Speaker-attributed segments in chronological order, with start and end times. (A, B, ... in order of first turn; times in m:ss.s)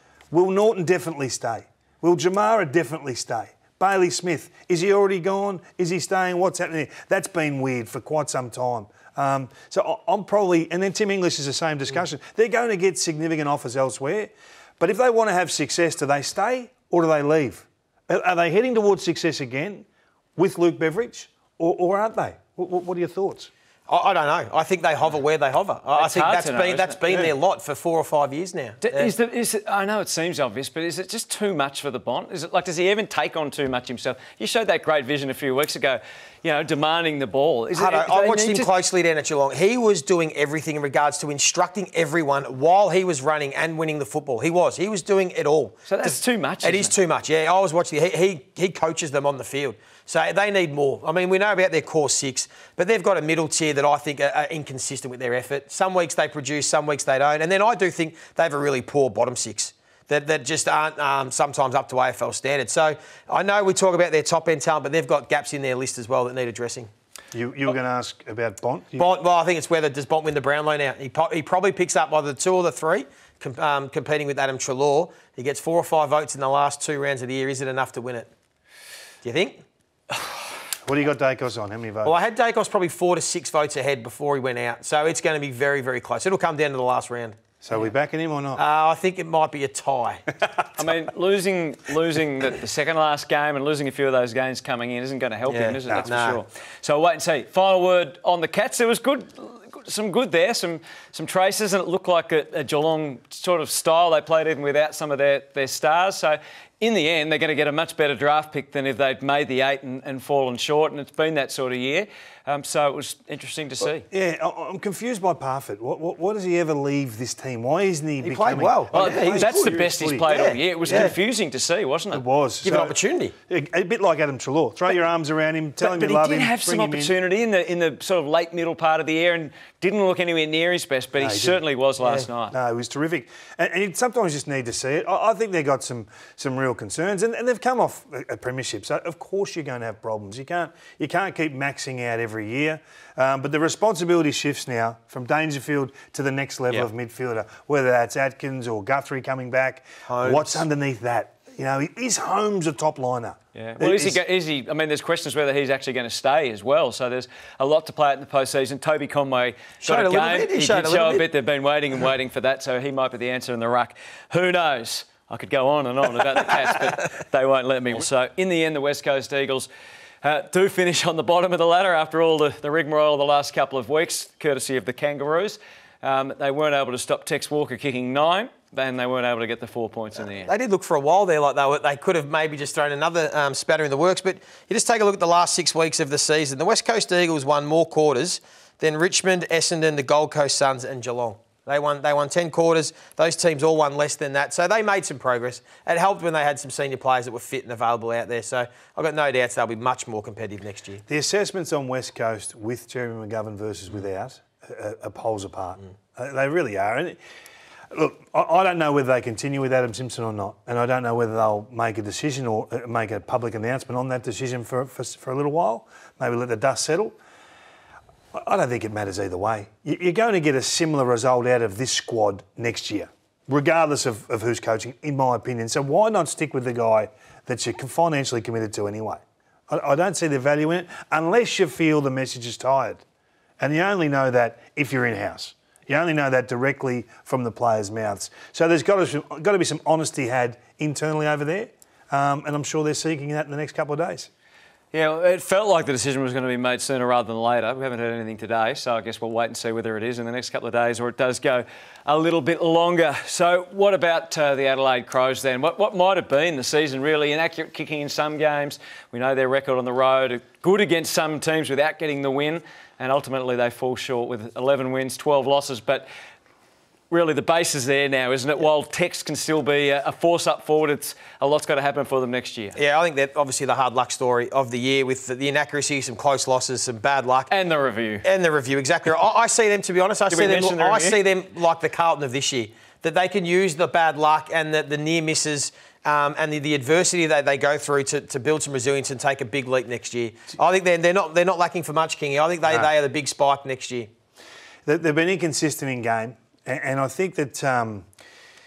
0:00.3-0:23.5 A
0:23.9-0:29.1 B
0:25.9-0:27.0 C
0:28.8-0:38.7 C
0:37.7-1:06.9 B
0:45.9-0:46.9 C
1:07.3-1:09.0 A
1:08.9-1:18.3 B
1:19.2-1:19.6 B
1:20.8-1:22.1 A
1:22.0-1:27.4 B
1:27.6-1:28.6 A
1:28.6-1:30.3 B
1:30.8-1:54.0 C
1:35.4-1:36.4 B
1:54.1-2:01.1 A
1:58.2-2:01.1 B
1:58.9-2:02.2 C
2:02.1-2:02.9 A
2:02.6-2:03.3 B
2:03.5-2:07.1 A
2:05.8-2:12.5 C
2:11.2-2:11.6 A
2:12.0-2:12.2 B
2:12.5-2:34.2 A
2:30.0-2:30.6 B
2:33.5-2:49.7 C
2:39.8-2:41.2 B
2:50.2-3:00.5 C
3:00.3-3:21.0 B
3:21.1-3:27.2 A
3:27.9-3:37.2 A
3:38.3-3:53.0 A
3:53.6-4:04.3 A
4:04.9-4:26.1 C
4:27.1-4:32.8 C
4:32.8-4:37.5 B
4:37.5-4:38.2 C
4:38.2-4:54.1 B
4:40.3-4:41.2 C
4:52.7-4:52.9 A
4:54.8-4:58.1 A